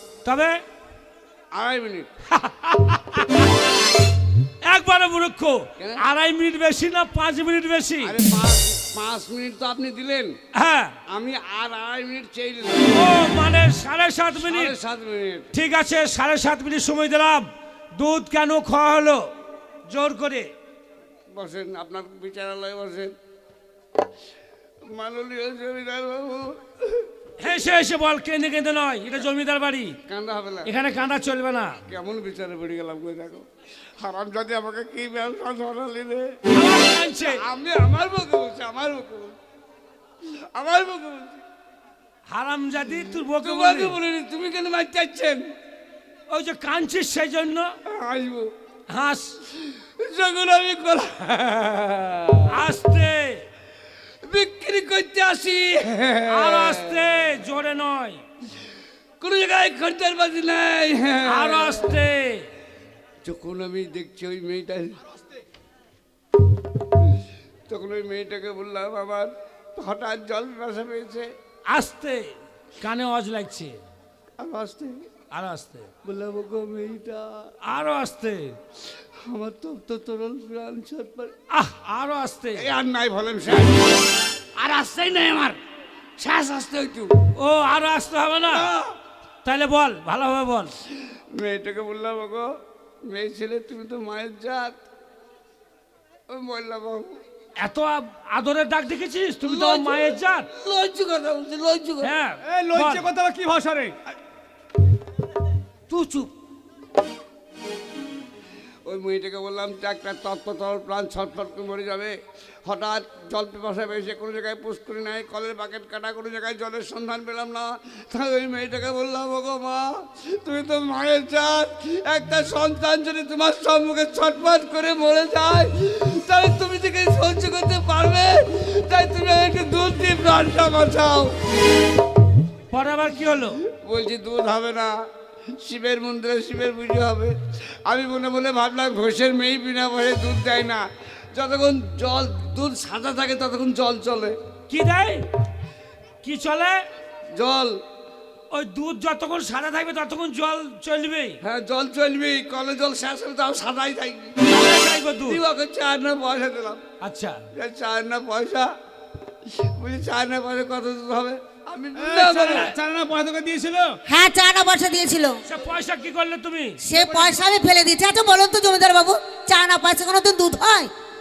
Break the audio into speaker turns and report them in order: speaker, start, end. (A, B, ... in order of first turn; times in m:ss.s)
0:00.2-0:00.6 A
0:01.6-0:02.1 B
0:02.4-0:03.5 A
0:04.6-0:08.2 A
0:08.0-0:10.4 B
0:10.5-0:11.0 A
0:11.1-0:13.2 B
0:12.9-0:14.8 A
0:14.4-0:15.5 B
0:15.5-0:19.2 A
0:19.9-0:20.5 A
0:21.3-0:23.1 B
0:24.9-0:27.1 B
0:27.4-0:30.0 A
0:30.1-0:30.7 B
0:30.6-0:31.8 A
0:31.9-0:33.4 B
0:34.0-0:39.4 B
0:36.5-0:37.4 A
0:40.3-0:41.4 B
0:42.3-0:44.0 A
0:43.3-0:45.4 B
0:46.3-0:47.8 A
0:47.9-0:48.5 B
0:48.9-0:49.4 A
0:49.5-0:52.5 B
0:52.5-0:53.5 A
0:54.3-0:57.1 B
0:56.3-0:58.2 A
0:59.2-1:01.8 B
1:01.3-1:02.5 A
1:03.2-1:05.0 B
1:07.7-1:11.3 B
1:11.7-1:12.2 A
1:12.8-1:13.8 A
1:14.4-1:15.1 B
1:15.3-1:15.9 A
1:16.0-1:17.5 B
1:17.6-1:18.6 A
1:19.2-1:21.3 B
1:21.5-1:22.7 A
1:22.6-1:24.0 B
1:24.6-1:25.6 B
1:26.2-1:27.1 B
1:27.4-1:28.7 A
1:28.5-1:28.9 B
1:29.4-1:30.7 A
1:31.3-1:32.5 B
1:33.0-1:34.8 B
1:36.3-1:37.2 B
1:37.6-1:40.5 A
1:39.4-1:42.1 B
1:42.0-1:43.1 A
1:42.4-1:44.1 C
1:45.9-1:46.3 A
1:48.8-1:52.2 B
1:52.7-2:11.4 B
2:12.7-2:13.6 A
2:13.7-2:15.0 B
2:15.6-2:17.4 B
2:17.9-2:24.4 B
2:24.7-2:25.2 A
2:26.2-2:26.8 A
2:27.4-2:27.8 B
2:28.5-2:31.4 A
2:31.4-2:34.7 B
2:34.4-2:35.4 A
2:35.2-2:36.8 B
2:37.0-2:37.4 A
2:37.6-2:38.7 B
2:39.5-2:42.8 B
2:42.0-2:44.0 C
2:44.1-2:45.4 D
2:45.5-2:46.8 A
2:46.8-2:50.9 D
2:46.9-2:47.3 C